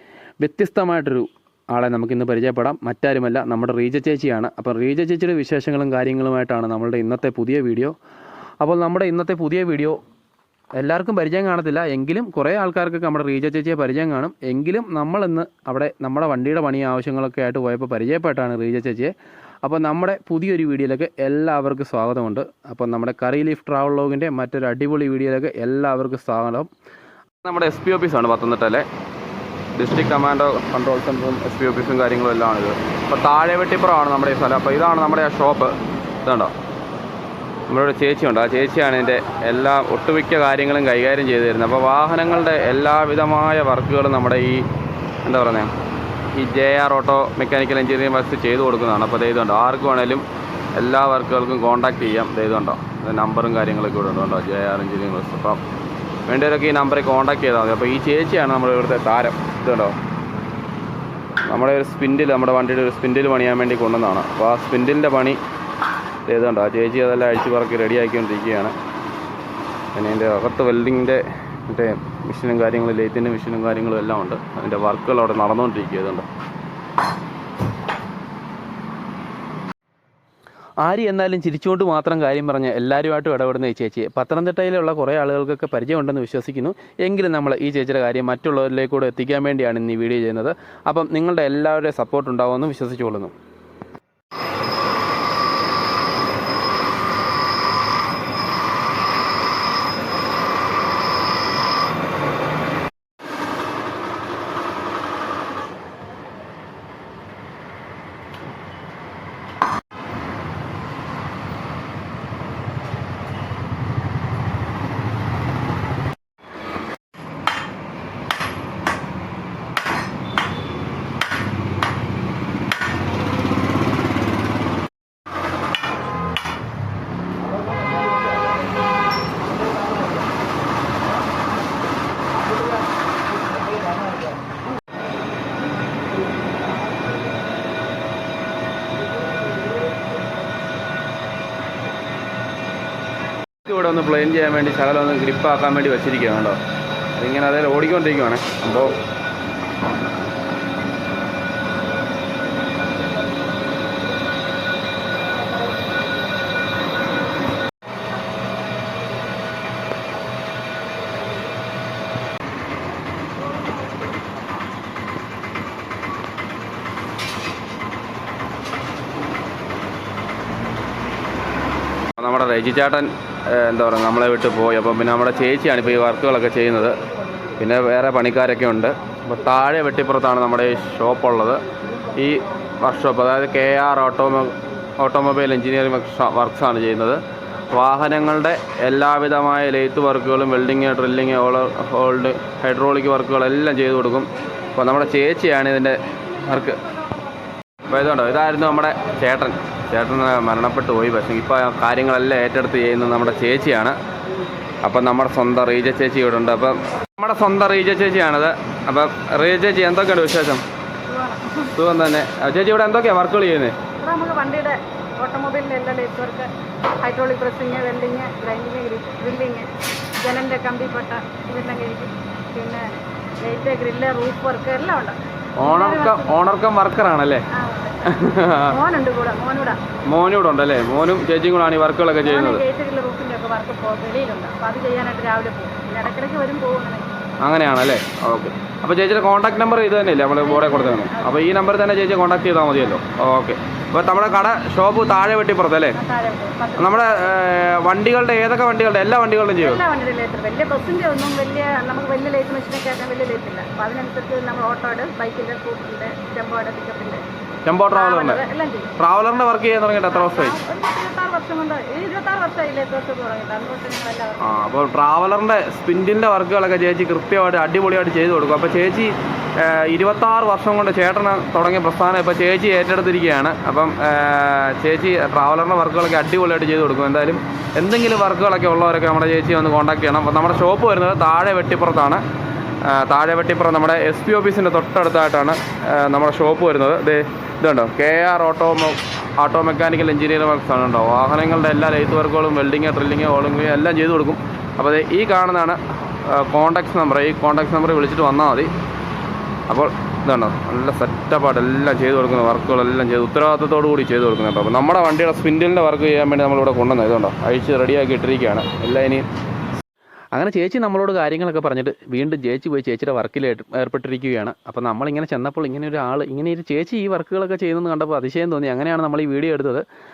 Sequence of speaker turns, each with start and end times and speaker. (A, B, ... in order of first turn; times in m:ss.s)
0:00.4-0:07.9 A
0:08.6-0:10.0 A
0:10.8-0:19.1 A
0:19.6-0:26.7 A
0:27.4-0:28.8 A
0:29.8-0:36.5 A
0:37.7-0:44.7 A
0:45.2-0:45.7 A
0:46.3-0:50.2 A
0:50.8-0:55.6 A
0:56.3-1:00.0 A
1:01.4-1:05.4 A
1:06.2-1:08.8 A
1:09.9-1:16.3 A
1:20.8-1:33.3 A
2:23.6-2:26.6 A
2:27.2-2:29.0 A
2:52.2-2:56.9 A
2:57.6-3:01.6 A
3:02.2-3:07.2 A
3:07.7-3:16.8 A
3:17.9-3:24.0 A
3:24.8-3:30.6 A
3:31.1-3:31.7 B
3:31.7-3:33.8 A
3:34.0-3:39.7 B
3:40.2-3:46.3 B
3:45.6-3:47.4 A
3:47.5-3:49.8 B
3:48.0-3:48.8 A
3:50.0-3:52.6 A
3:52.2-3:57.1 B
3:57.4-4:06.0 A
4:00.4-4:01.4 B
4:05.9-4:07.2 B
4:06.8-4:09.8 A
4:09.6-4:17.2 B
4:17.6-4:18.4 A
4:17.9-4:18.9 B
4:19.0-4:20.6 A
4:20.1-4:24.7 B
4:24.4-4:42.2 A
4:42.8-4:58.7 A
4:59.7-5:09.2 A
5:10.3-5:19.8 A